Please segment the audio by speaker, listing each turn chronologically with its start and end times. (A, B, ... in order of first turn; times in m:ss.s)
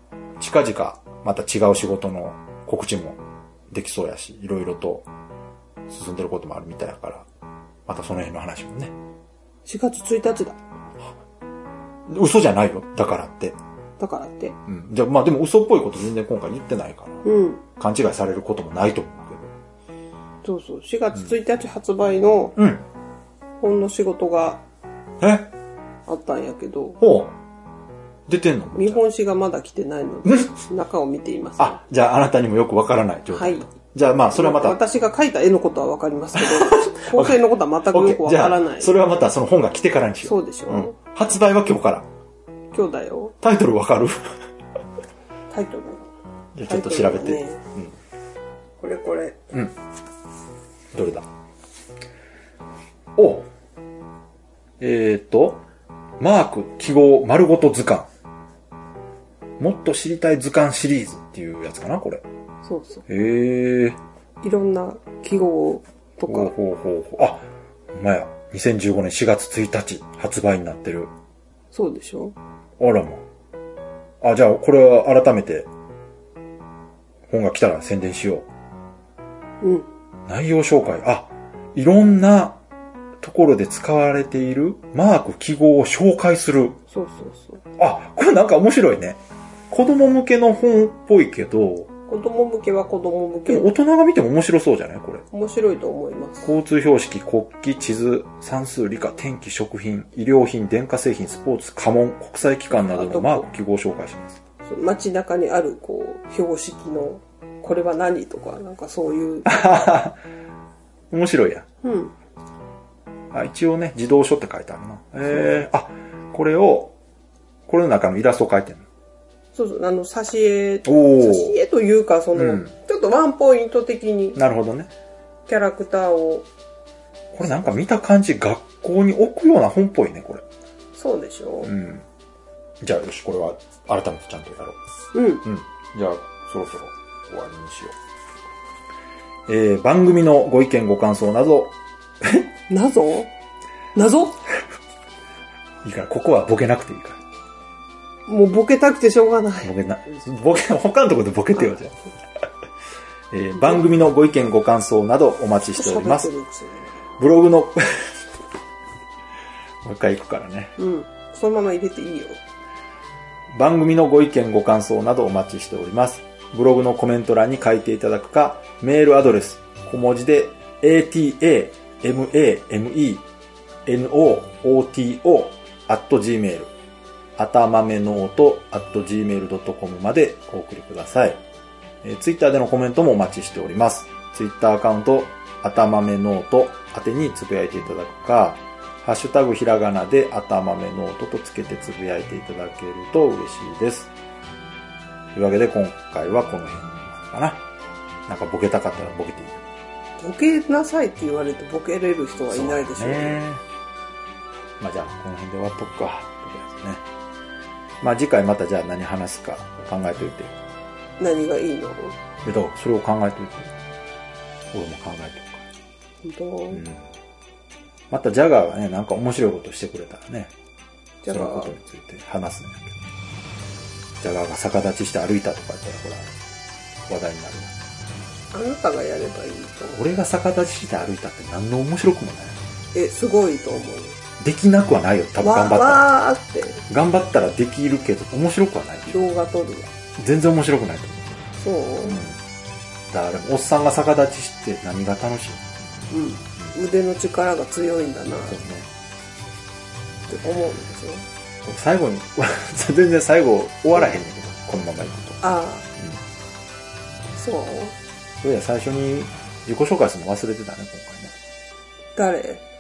0:00.4-0:03.2 A
0:03.7-0:05.1 A
0:05.9-0:07.3 A
0:07.9-0:08.9 A
0:09.7-0:10.6 B
0:12.1-0:13.6 A
0:14.0-0:14.6 B
0:14.7-0:17.3 A
0:17.2-0:17.6 B
0:17.8-0:19.5 A
0:20.4-0:22.6 B
0:22.6-0:22.8 A
0:23.6-0:24.6 B
0:25.2-0:25.5 A
0:26.1-0:27.0 B
0:27.0-0:27.4 A
0:28.3-0:29.0 A
0:28.7-0:31.8 B
0:30.2-0:30.6 A
0:31.6-0:34.8 A
0:33.3-0:33.7 B
0:34.3-0:38.9 B
0:36.4-0:42.1 A
0:40.2-0:41.0 B
0:42.7-0:43.4 B
0:43.4-0:44.2 A
0:45.5-0:46.1 B
0:46.6-0:47.9 A
0:46.7-0:47.6 B
0:48.8-0:49.5 B
0:50.9-0:51.3 A
0:53.2-0:53.5 A
0:54.8-0:55.6 A
0:56.2-0:58.1 A
0:59.6-1:02.2 A
1:02.6-1:03.0 B
1:03.1-1:04.0 A
1:04.4-1:06.5 B
1:06.3-1:11.1 A
1:11.7-1:12.4 B
1:12.8-1:13.2 A
1:14.2-1:15.7 A
1:17.3-1:18.5 A
1:19.6-1:19.9 B
1:20.3-1:22.6 A
1:23.2-1:26.8 A
1:26.9-1:27.6 B
1:27.8-1:31.9 A
1:32.1-1:33.7 B
1:33.5-1:35.2 A
1:35.3-1:36.5 B
1:36.4-1:44.4 A
1:42.7-1:43.5 B
1:44.6-1:49.5 B
1:49.4-1:50.2 A
1:51.1-1:51.7 A
1:51.8-1:52.1 B
1:53.3-1:56.9 A
1:57.7-1:58.8 A
1:59.5-2:04.4 B
2:00.8-2:01.6 A
2:02.3-2:02.7 A
2:04.4-2:04.9 A
2:05.5-2:06.5 B
2:07.4-2:10.4 A
2:07.4-2:07.9 B
2:11.0-2:11.7 B
2:11.6-2:12.0 A
2:12.8-2:14.8 A
2:15.1-2:15.4 B
2:15.4-2:17.9 A
2:19.5-2:22.5 A
2:22.7-2:23.3 B
2:24.0-2:24.4 B
2:25.8-2:27.2 A
2:28.3-2:29.7 B
2:29.6-2:32.0 A
2:33.3-2:36.3 A
2:33.6-2:33.8 B
2:35.8-2:37.0 B
2:37.2-2:38.1 A
2:39.8-2:40.8 A
2:40.8-2:42.4 B
2:43.5-2:53.2 A
2:53.9-2:56.7 A
2:57.4-3:01.4 A
3:02.0-3:14.1 A
3:15.3-3:17.6 A
3:18.3-3:19.6 A
3:20.2-3:23.4 B
3:22.5-3:23.6 A
3:24.8-3:27.0 A
3:28.0-3:30.5 A
3:31.2-3:32.2 B
3:32.4-3:33.7 A
3:34.7-3:35.6 A
3:36.2-3:36.8 B
3:36.7-3:37.1 A
3:38.1-3:40.5 A
3:41.2-3:41.7 B
3:41.3-3:43.0 A
3:44.2-3:46.4 A
3:47.1-3:47.7 A
3:48.5-3:50.0 B
3:49.9-3:52.6 A
3:52.9-3:54.2 B
3:54.4-3:56.1 A
3:55.4-3:56.8 B
3:56.9-3:59.2 A
3:59.1-3:59.9 B
4:00.2-4:01.4 A
4:01.6-4:02.2 B
4:02.0-4:02.4 A
4:03.1-4:05.7 A
4:06.1-4:08.6 B
4:08.4-4:08.9 A
4:10.3-4:11.2 B
4:11.6-4:15.4 A
4:15.4-4:15.9 B
4:16.0-4:16.2 A
4:17.3-4:18.0 B
4:18.4-4:21.3 A
4:22.2-4:22.6 B